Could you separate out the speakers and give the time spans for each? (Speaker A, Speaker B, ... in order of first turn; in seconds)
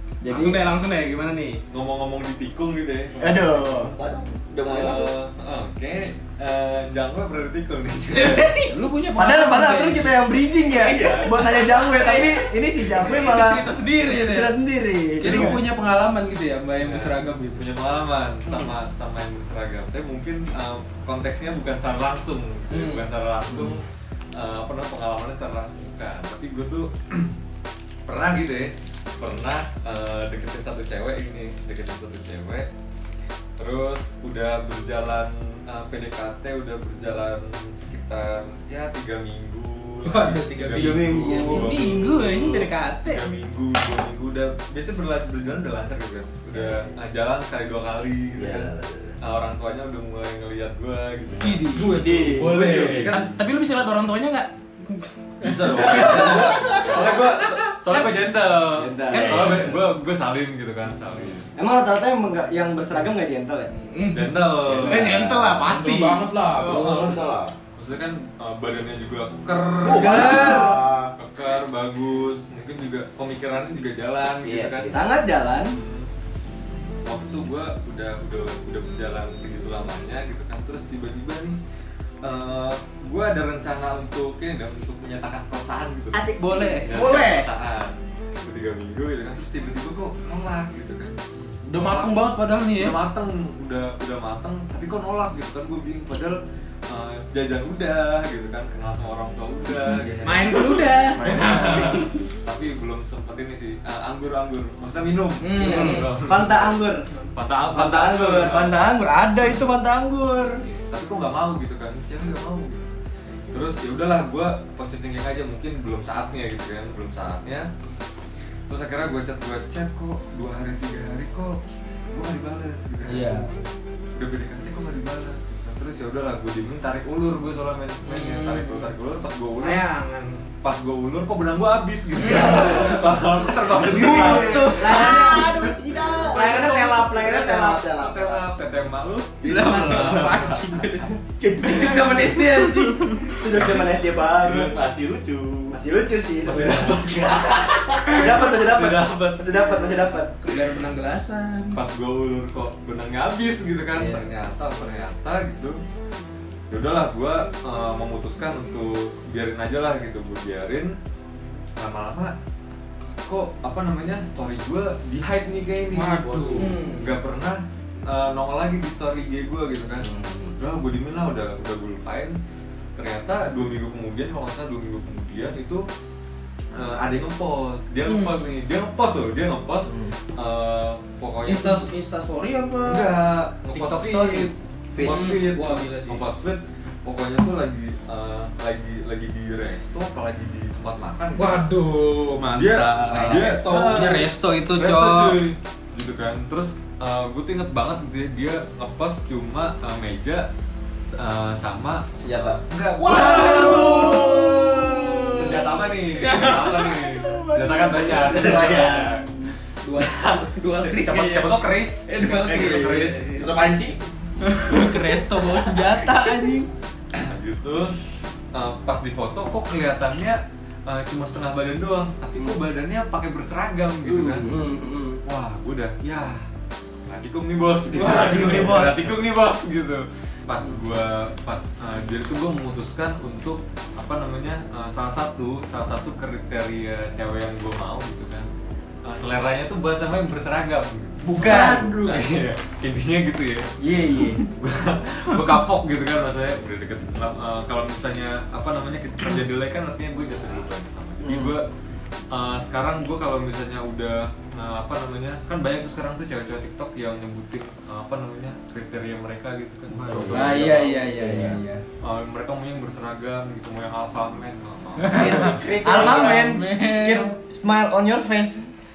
Speaker A: 0.2-0.6, 3.2-3.9, 9.1-15.6, 40.7-41.8, 59.1-59.5, 61.5-63.7, 69.9-70.8, 74.9-75.8, 105.6-107.0, 107.7-110.6, 123.0-123.5, 133.9-137.8, 143.3-144.8, 145.7-147.3, 148.1-150.4, 153.9-154.3, 179.8-180.1, 224.1-225.2, 227.9-229.1, 241.3-242.2, 243.8-244.4, 251.2-251.6, 260.3-261.8, 265.7-268.7
Speaker B: 0.3-1.6, 8.1-8.8, 10.9-14.5, 22.7-23.0, 41.4-43.3, 51.4-52.0, 53.1-56.8, 57.5-58.2, 59.1-59.6, 63.8-67.1, 100.2-102.3, 105.4-106.1, 128.0-128.9, 129.6-130.4, 132.2-133.0, 139.8-140.2, 141.6-143.1, 150.4-151.8, 166.5-167.1, 178.0-178.4, 181.4-183.1, 185.0-186.2, 203.1-208.2, 209.8-213.3, 241.4-242.0
Speaker C: 1.7-3.7, 4.6-8.6, 16.8-23.8, 24.3-27.3, 28.1-32.7, 33.6-53.3, 55.4-61.5, 64.1-65.3, 66.6-67.1, 67.7-75.0, 75.6-76.1, 77.0-81.6, 82.2-86.3, 86.8-106.7, 107.3-108.8, 110.9-112.9, 113.5-117.7, 118.7-121.6, 122.1-123.6, 124.2-129.9, 130.6-135.6, 136.2-140.8, 143.5-143.9, 146.4-149.9, 151.7-155.8, 156.7-160.9, 161.8-162.3, 163.2-172.3, 172.9-175.8, 176.7-181.9, 182.8-191.7, 192.4-200.5, 201.1-209.2, 209.9-213.7, 217.1-217.9, 218.5-224.5, 225.2-226.4, 227.1-238.5, 239.0-251.7, 252.3-260.9, 262.0-265.5
Speaker D: 3.7-5.1, 10.7-11.9, 46.5-46.9, 48.4-49.2, 51.8-53.1, 55.6-57.2, 58.8-59.8, 64.7-65.7, 66.6-67.5, 69.8-71.1, 74.4-75.0, 86.1-87.5, 134.0-138.4, 141.4-142.4, 143.5-145.8, 147.4-148.1, 170.0-170.6, 184.9-185.4, 193.1-194.2, 202.2-205.6, 207.7-209.2, 212.4-214.0, 224.3-224.6, 260.6-261.6, 265.1-266.5
Speaker E: 8.6-10.2, 15.2-17.6, 40.0-41.7, 65.5-67.2, 86.4-87.2, 91.6-93.0, 101.4-101.8, 133.9-135.1, 139.4-141.1, 165.9-166.7, 183.8-184.5, 191.3-195.4, 214.5-216.7, 241.5-242.1, 259.9-260.5, 265.0-267.3